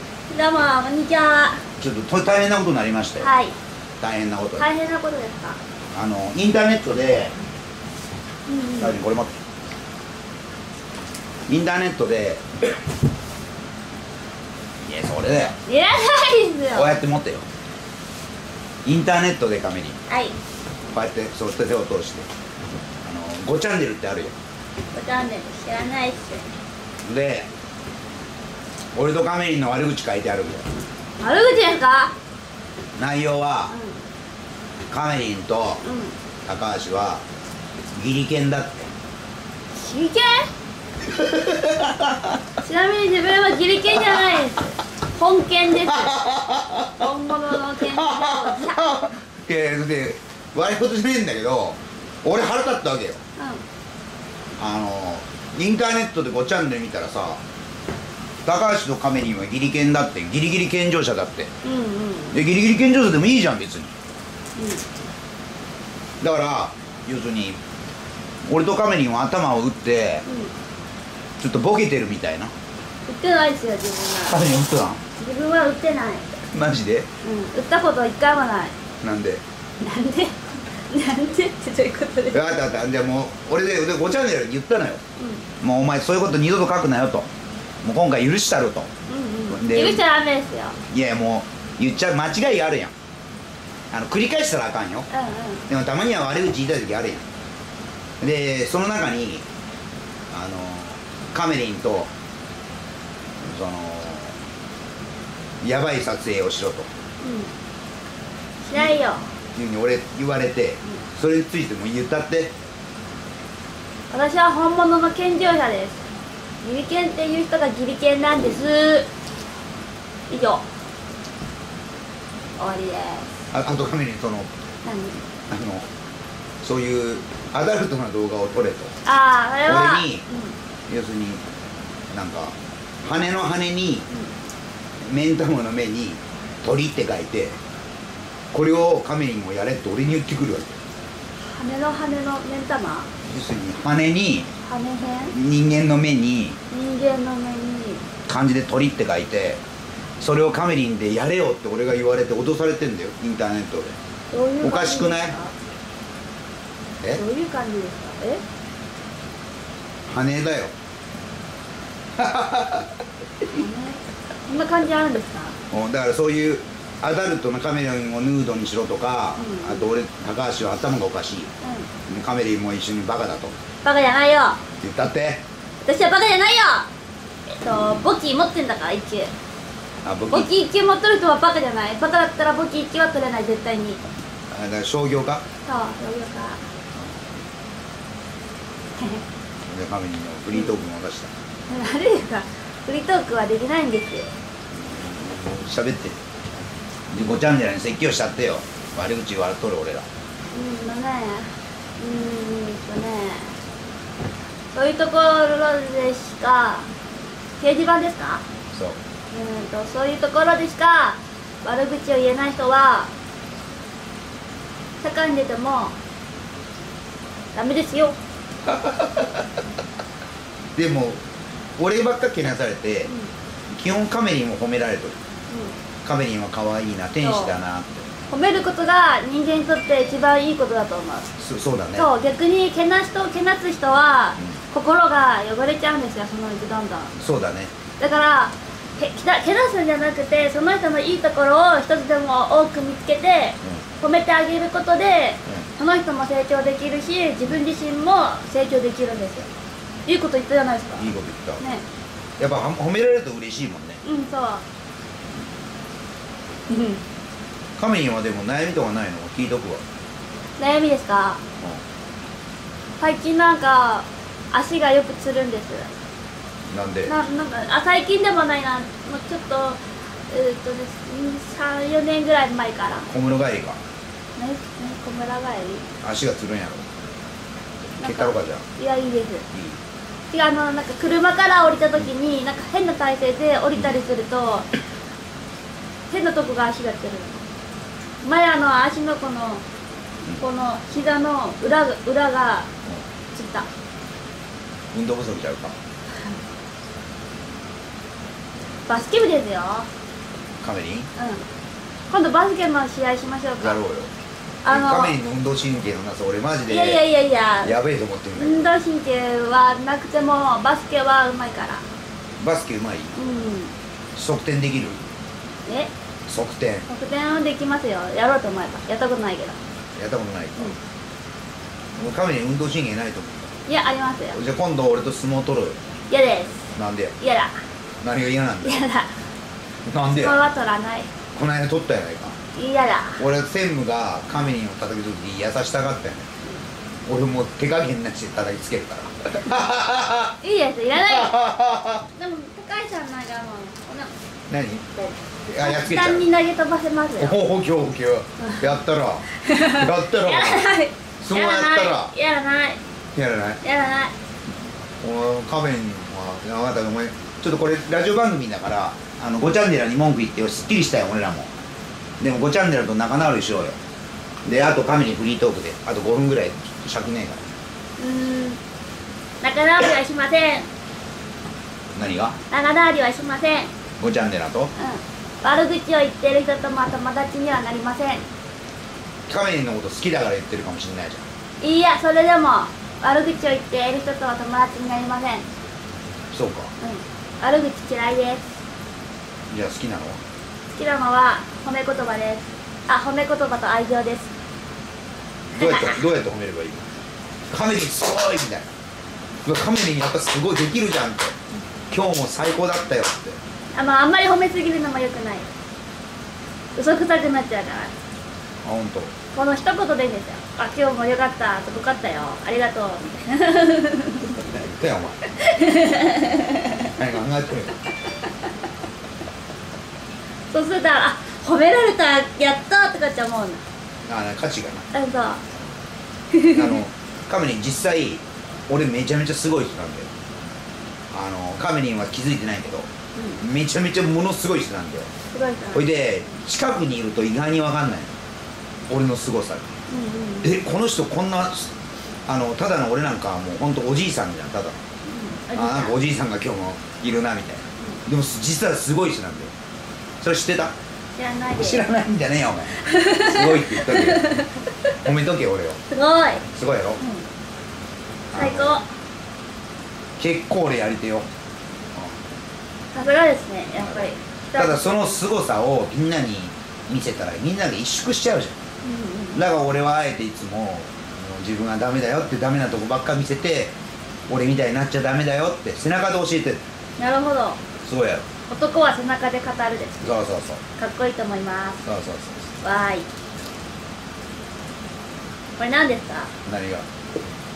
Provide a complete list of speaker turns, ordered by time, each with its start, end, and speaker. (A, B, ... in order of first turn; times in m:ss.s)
0:00.3-0:01.6 A
0:01.8-0:03.3 B
0:03.2-0:03.6 A
0:04.0-0:04.7 B
0:04.6-0:05.6 A
0:05.9-0:07.4 B
0:08.5-0:09.0 A
0:08.8-0:09.4 B
0:11.5-0:12.5 B
0:14.8-0:15.6 B
0:15.7-0:16.9 A
0:16.7-0:17.5 B
0:18.8-0:20.0 B
0:20.1-0:20.4 A
0:20.9-0:22.3 B
0:23.0-0:24.4 B
0:24.9-0:26.5 A
0:27.0-0:27.5 B
0:29.0-0:30.7 B
0:31.2-0:32.1 A
0:33.0-0:33.7 B
0:33.7-0:34.0 A
0:34.9-0:35.8 B
0:35.8-0:36.1 A
0:36.5-0:37.2 B
0:38.0-0:38.9 B
0:39.8-0:40.5 A
0:41.1-0:42.4 B
0:42.6-0:46.2 A
0:46.0-0:47.0 B
0:47.0-0:48.8 A
0:47.9-0:53.2 B
0:54.6-0:57.4 B
0:58.4-1:01.5 B
1:01.6-1:02.4 A
1:02.3-1:04.0 B
1:04.6-1:04.8 A
1:06.2-1:07.6 B
1:08.5-1:10.3 B
1:10.3-1:10.5 A
1:11.4-1:12.5 B
1:13.1-1:14.4 A
1:14.2-1:15.0 B
1:15.2-1:16.3 A
1:16.4-1:17.1 B
1:17.2-1:18.7 A
1:19.0-1:19.4 B
1:19.8-1:22.4 A
1:22.3-1:25.0 B
1:25.2-1:25.4 A
1:25.6-1:27.3 B
1:27.8-1:28.9 B
1:29.1-1:30.8 A
1:29.5-1:30.0 B
1:30.9-1:32.9 B
1:33.9-1:35.1 B
1:35.1-1:35.6 A
1:35.7-1:37.3 B
1:38.2-1:39.4 B
1:40.3-1:42.1 B
1:43.4-1:44.4 B
1:45.6-1:46.9 B
1:47.2-1:47.5 A
1:48.6-1:49.2 A
1:49.5-1:52.5 B
1:54.1-1:56.0 A
1:56.6-1:59.1 A
2:00.3-2:00.6 A
2:02.6-2:03.3 A
2:03.5-2:04.5 B
2:04.8-2:05.2 A
2:05.5-2:05.9 B
2:06.6-2:08.9 B
2:09.0-2:10.5 A
2:09.6-2:10.2 B
2:10.9-2:11.4 B
2:12.1-2:14.1 B
2:15.0-2:17.6 B
2:18.5-2:20.8 B
2:21.4-2:23.1 A
2:23.2-2:24.5 B
2:24.6-2:25.3 A
2:25.3-2:26.6 B
2:26.7-2:28.0 A
2:28.3-2:29.6 B
2:30.2-2:34.0 B
2:34.3-2:35.5 A
2:34.6-2:35.4 B
2:37.2-2:38.4 A
2:40.1-2:40.7 B
2:42.2-2:43.0 B
2:43.5-2:45.6 A
2:45.7-2:51.5 B
2:49.4-2:49.9 A
2:51.6-2:51.9 A
2:52.1-2:53.6 B
2:53.8-2:54.6 A
2:54.8-2:55.4 B
2:55.8-2:56.9 A
2:57.5-2:59.3 A
3:00.0-3:00.5 B
3:00.3-3:04.0 A
3:04.5-3:05.4 B
3:05.6-3:06.6 A
3:09.0-3:09.2 A
3:09.7-3:11.3 B
3:11.7-3:14.3 A
3:14.8-3:16.2 B
3:17.1-3:20.1 B
3:20.5-3:23.6 A
3:24.7-3:26.9 A
3:27.6-3:28.4 A
3:29.3-3:33.1 A
3:35.0-3:36.0 A
3:37.6-3:38.2 A
3:38.7-3:39.3 B
3:40.8-3:41.2 B
3:41.8-3:43.1 B
3:43.7-3:45.2 B
3:45.5-3:45.8 A
3:46.0-3:48.1 B
3:47.2-3:47.5 A
3:48.3-3:51.3 A
3:51.4-3:52.1 B
3:52.0-3:57.1 A
3:57.2-3:57.7 B
3:58.0-4:09.5 A
4:10.1-4:11.1 A
4:11.0-4:11.6 B
4:12.4-4:14.0 B
4:14.0-4:14.6 A
4:16.7-4:17.0 A
4:17.8-4:19.8 B
4:20.6-4:21.4 A
4:23.0-4:25.9 A
4:26.7-4:27.1 B
4:27.1-4:33.1 A
4:33.1-4:33.8 B
4:34.4-4:35.9 A
4:36.0-4:36.8 B
4:37.9-4:38.7 B
4:38.0-4:39.4 A
4:39.5-4:39.8 B
4:40.3-4:44.7 A
4:46.1-4:47.4 A
4:48.2-4:49.6 A
4:50.4-4:52.7 A
4:53.3-4:53.7 A
4:54.9-4:55.8 B
4:58.9-4:59.9 A
5:00.6-5:01.1 B
5:01.2-5:01.4 A
5:02.1-5:03.8 A
5:03.6-5:04.1 B
5:04.6-5:05.2 A
5:04.7-5:07.1 B
5:06.7-5:07.8 A
5:07.6-5:08.7 B
5:08.4-5:11.8 A
5:12.4-5:13.2 B
5:13.2-5:13.7 A
5:14.2-5:15.0 B
5:15.7-5:15.9 A
5:16.3-5:16.9 B
5:16.9-5:19.6 A
5:20.0-5:20.8 B
5:22.0-5:23.5 B
5:23.7-5:24.4 A
5:24.3-5:25.8 B
5:26.1-5:26.6 A
5:26.8-5:27.1 B
5:27.2-5:27.5 A
5:28.0-5:28.8 B
5:28.6-5:29.1 A
5:29.9-5:30.4 B
5:30.2-5:31.1 A
5:31.3-5:32.4 B
5:32.5-5:33.2 A
5:33.2-5:36.3 B
5:37.1-5:40.4 B
5:40.4-5:41.4 A
5:41.0-5:42.0 B
5:42.2-5:44.1 A
5:44.5-5:45.0 B
5:45.0-5:47.4 A
5:45.5-5:46.3 B
5:47.2-5:50.7 B
5:49.5-5:52.8 A
5:51.2-5:52.1 B
5:53.2-5:53.6 B
5:53.6-5:54.1 A
5:55.0-6:01.5 B
6:02.2-6:03.8 B
6:04.4-6:07.5 B
6:08.0-6:08.6 A
6:09.4-6:10.7 A
6:12.0-6:12.4 B
6:12.5-6:13.7 A
6:14.0-6:14.7 B
6:14.8-6:18.2 A
6:19.3-6:21.2 B
6:21.6-6:25.4 A
6:26.3-6:26.7 B
6:26.8-6:28.4 A
6:29.5-6:30.2 B
6:30.8-6:34.3 A
6:35.5-6:36.9 B
6:35.6-6:36.0 A
6:37.5-6:38.7 B
6:39.4-6:41.3 B
6:41.9-6:43.4 B
6:43.7-6:45.5 A
6:46.8-6:47.9 A
6:48.6-6:49.1 B
6:49.3-6:54.3 A
6:54.4-6:55.2 B
6:55.4-6:56.8 A
6:56.7-6:57.8 B
7:00.5-7:03.6 A
7:04.1-7:04.9 B
7:04.9-7:05.4 A
7:06.3-7:06.6 A
7:06.5-7:10.1 B
7:11.1-7:15.1 B
7:15.3-7:15.9 A
7:15.7-7:18.1 B
7:18.9-7:19.7 B
7:19.9-7:20.6 A
7:20.4-7:21.7 B
7:22.3-7:24.8 B
7:25.0-7:26.0 A
7:25.6-7:29.5 B
7:30.2-7:30.7 B
7:31.2-7:31.9 A
7:31.6-7:34.5 B
7:32.8-7:34.6 A
7:35.0-7:35.8 B
7:35.9-7:36.5 A
7:36.5-7:37.0 B
7:37.0-7:37.3 A
7:38.3-7:38.8 B
7:38.3-7:38.9 A
7:40.2-7:41.3 B
7:42.9-7:45.2 A
7:43.8-7:48.6 B
7:48.8-7:49.4 A
7:49.3-7:53.7 B
7:54.3-7:56.6 B
7:57.0-7:57.6 A
7:57.8-7:58.3 B
7:58.5-8:00.0 A
8:00.0-8:00.6 B
8:00.8-8:01.8 A
8:01.8-8:02.5 B
8:02.6-8:03.1 A
8:05.6-8:06.3 A
8:06.4-8:06.8 B